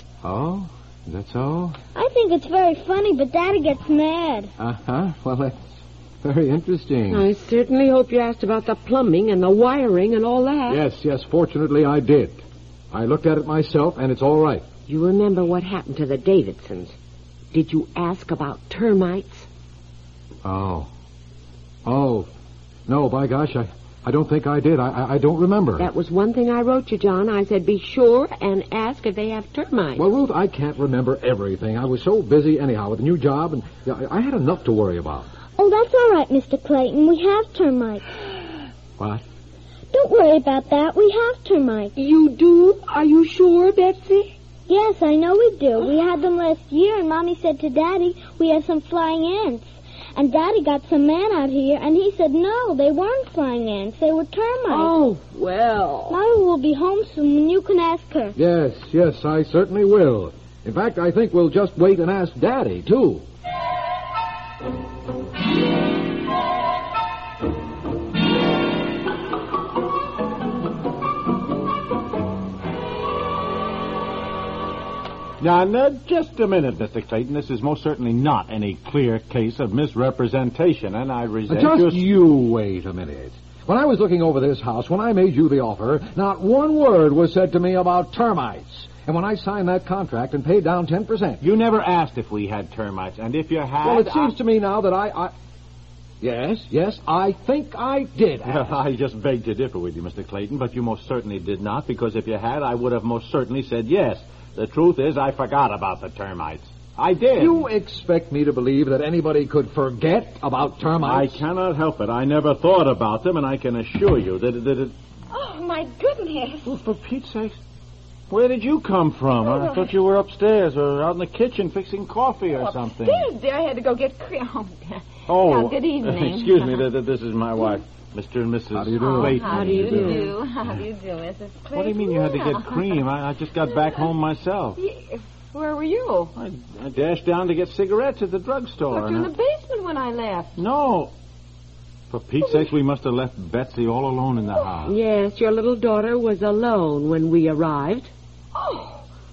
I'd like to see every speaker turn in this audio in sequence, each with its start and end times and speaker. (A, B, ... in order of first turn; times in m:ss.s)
0:00.2-0:01.8 A
0:02.0-0:04.5 B
0:04.6-0:07.3 A
0:07.1-0:10.8 C
0:10.7-0:12.4 A
0:12.9-0:14.7 A
0:14.9-0:17.0 C
0:17.5-0:19.5 C
0:20.4-0:20.9 A
0:21.8-0:22.3 A
0:22.9-0:25.9 A
0:25.8-0:30.0 C
0:30.0-0:35.3 A
0:35.6-0:38.0 B
0:39.0-0:39.2 A
0:39.9-0:42.0 B
0:42.3-0:43.6 C
0:44.7-0:54.9 B
0:54.7-0:56.2 C
0:56.1-0:58.4 B
0:58.4-1:03.2 A
1:15.4-1:22.1 D
1:21.5-1:31.4 A
1:31.4-1:34.3 D
1:33.8-1:35.3 A
1:36.2-1:38.8 A
1:38.4-1:47.6 D
1:47.4-1:51.4 A
1:51.0-1:54.9 D
1:55.3-1:56.7 E
1:56.6-1:57.6 D
1:58.3-2:03.3 D
1:59.4-1:59.9 E
2:02.5-2:06.9 E
2:05.3-2:10.2 D
2:08.7-2:09.9 A
2:09.0-2:13.0 E
2:09.4-2:10.3 C
2:11.7-2:14.8 D
2:14.8-2:16.3 E
2:16.4-2:19.3 D
2:18.9-2:20.6 E
2:20.6-2:21.1 D
2:22.1-2:25.0 D
2:24.9-2:28.1 C
2:28.5-2:29.1 E